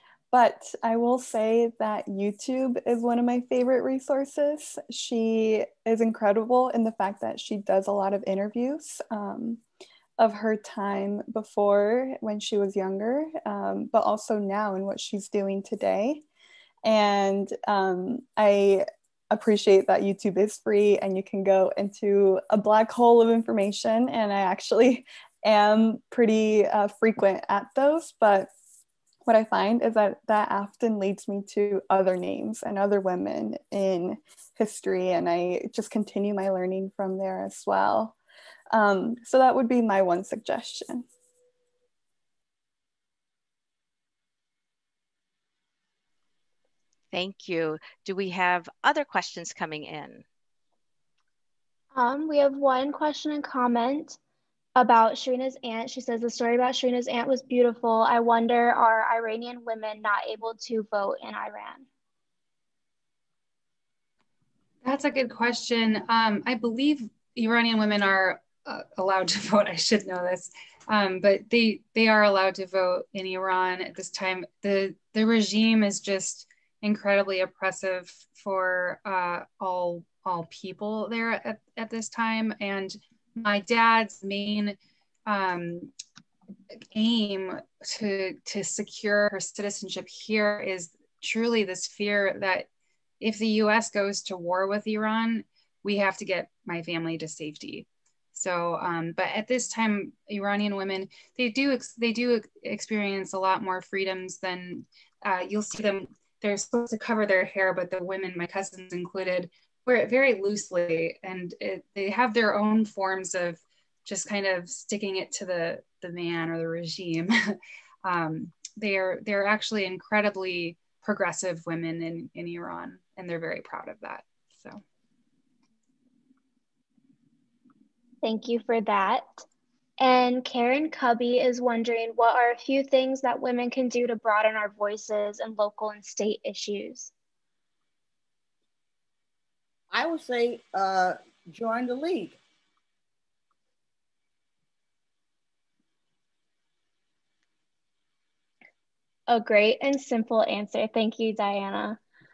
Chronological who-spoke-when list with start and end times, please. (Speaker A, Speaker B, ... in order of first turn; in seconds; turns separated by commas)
Speaker A: 0.3-9.6, Speaker A: 10.2-16.2, Speaker A: 16.8-28.5, Speaker A: 29.3-38.2, Speaker A: 38.7-41.1, Speaker B: 47.1-50.2, Speaker C: 51.9-54.2, Speaker C: 54.8-61.9, Speaker D: 64.8-85.9, Speaker D: 86.9-92.7, Speaker D: 93.2-124.8, Speaker C: 128.2-129.4, Speaker C: 130.0-137.1, Speaker E: 139.9-142.4, Speaker C: 149.3-152.0